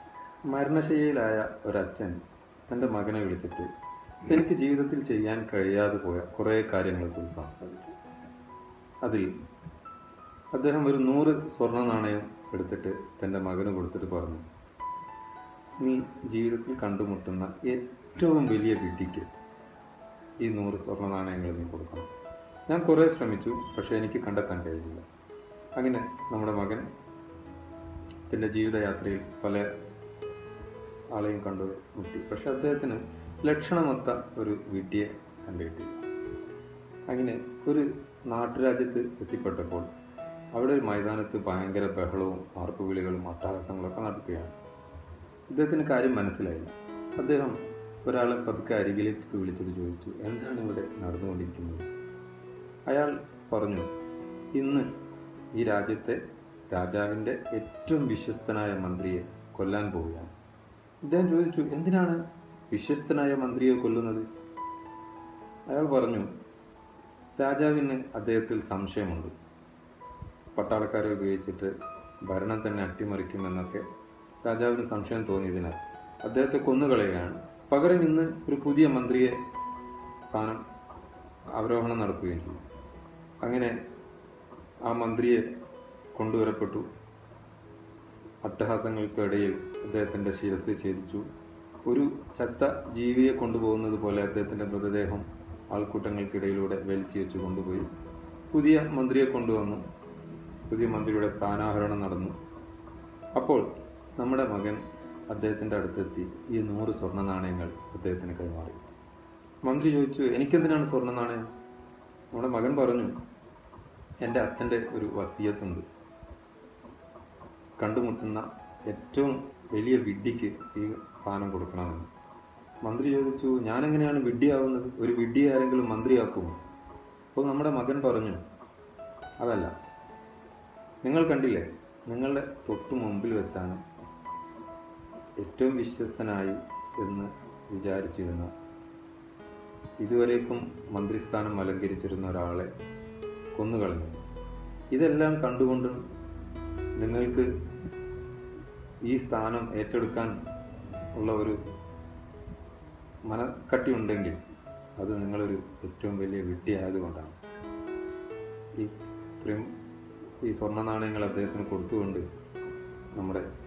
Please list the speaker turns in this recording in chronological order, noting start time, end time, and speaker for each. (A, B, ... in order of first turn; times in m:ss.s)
0:00.5-0:03.7 A
0:04.2-0:07.9 A
0:09.0-0:09.3 A
0:10.5-0:14.4 A
0:15.8-0:19.3 A
0:20.4-0:22.1 A
0:22.7-0:25.0 A
0:25.8-0:26.8 A
0:28.3-0:29.6 A
0:31.1-0:36.0 A
0:37.1-0:39.9 A
0:40.5-0:44.6 A
0:45.5-0:51.9 A
0:52.9-0:53.9 A
0:54.5-0:54.9 A
0:55.5-0:56.2 A
0:56.7-1:00.3 A
1:01.0-1:04.2 A
1:05.7-1:06.3 A
1:07.4-1:09.3 A
1:10.5-1:11.7 A
1:12.2-1:13.8 A
1:14.4-1:19.4 A
1:20.2-1:20.6 A
1:21.6-1:22.6 A
1:23.4-1:23.8 A
1:24.8-1:25.4 A
1:26.2-1:26.9 A
1:28.4-1:31.2 A
1:31.8-1:37.9 A
1:38.5-1:39.8 A
1:40.7-1:42.3 A
1:43.4-1:48.8 A
1:49.6-1:51.5 A
1:52.3-1:53.1 A
1:54.2-1:55.8 A
1:57.8-2:02.1 A
2:02.8-2:06.6 A
2:07.3-2:08.4 A
2:09.4-2:09.7 A
2:11.0-2:13.8 A
2:15.4-2:18.5 A
2:20.0-2:22.7 A
2:23.5-2:24.2 A
2:24.9-2:26.0 A
2:27.0-2:27.5 A
2:29.0-2:30.3 A
2:31.1-2:31.6 A
2:33.2-2:34.4 A
2:35.0-2:37.4 A
2:38.8-2:39.7 A
2:40.4-2:42.2 A
2:43.1-2:43.4 A